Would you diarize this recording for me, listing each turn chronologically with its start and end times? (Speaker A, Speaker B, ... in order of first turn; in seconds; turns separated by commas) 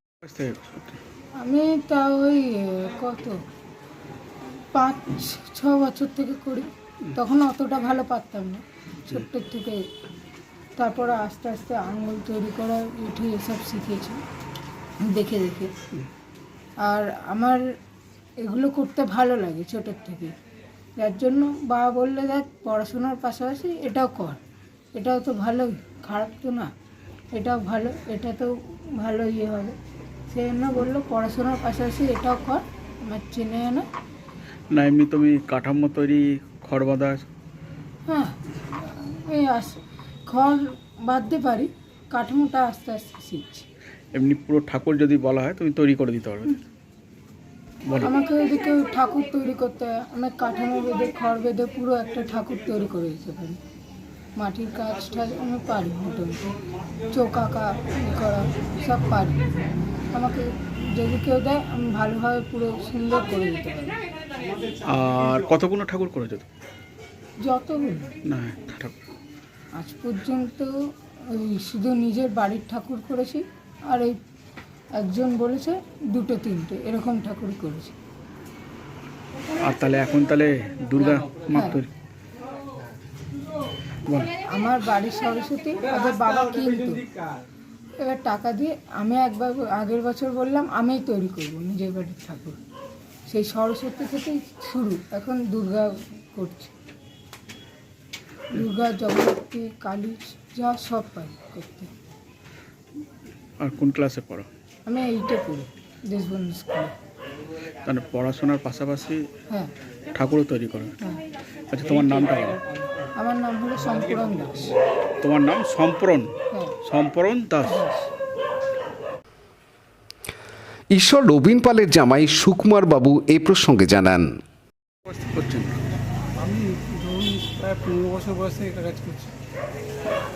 Speaker A: 0.2-1.0, Speaker B: 1.4-3.4, Speaker B: 4.7-9.8, Speaker B: 10.8-14.2, Speaker B: 15.0-15.7, Speaker B: 16.8-17.6, Speaker B: 18.4-20.3, Speaker B: 21.0-24.4, Speaker B: 24.9-26.7, Speaker B: 27.3-29.8, Speaker B: 30.3-33.8, Speaker A: 34.7-37.2, Speaker B: 38.1-43.7, Speaker A: 44.1-46.6, Speaker A: 47.9-48.1, Speaker B: 48.0-53.6, Speaker B: 54.4-56.5, Speaker B: 57.1-59.5, Speaker B: 60.1-64.0, Speaker A: 64.8-66.5, Speaker B: 67.4-68.1, Speaker A: 68.3-69.0, Speaker B: 69.8-70.7, Speaker B: 71.3-74.2, Speaker B: 75.0-78.0, Speaker A: 79.6-81.9, Speaker B: 81.5-81.8, Speaker A: 84.1-84.3, Speaker B: 84.5-87.1, Speaker B: 88.0-92.6, Speaker B: 93.3-96.7, Speaker B: 98.5-101.9, Speaker A: 103.6-104.5, Speaker B: 104.9-106.9, Speaker A: 107.9-109.2, Speaker A: 110.2-111.0, Speaker A: 111.7-112.6, Speaker B: 113.2-114.7, Speaker A: 115.2-116.3, Speaker A: 116.9-117.8, Speaker B: 117.7-118.1, Speaker C: 121.0-124.3, Speaker A: 125.1-125.8, Speaker D: 126.4-129.3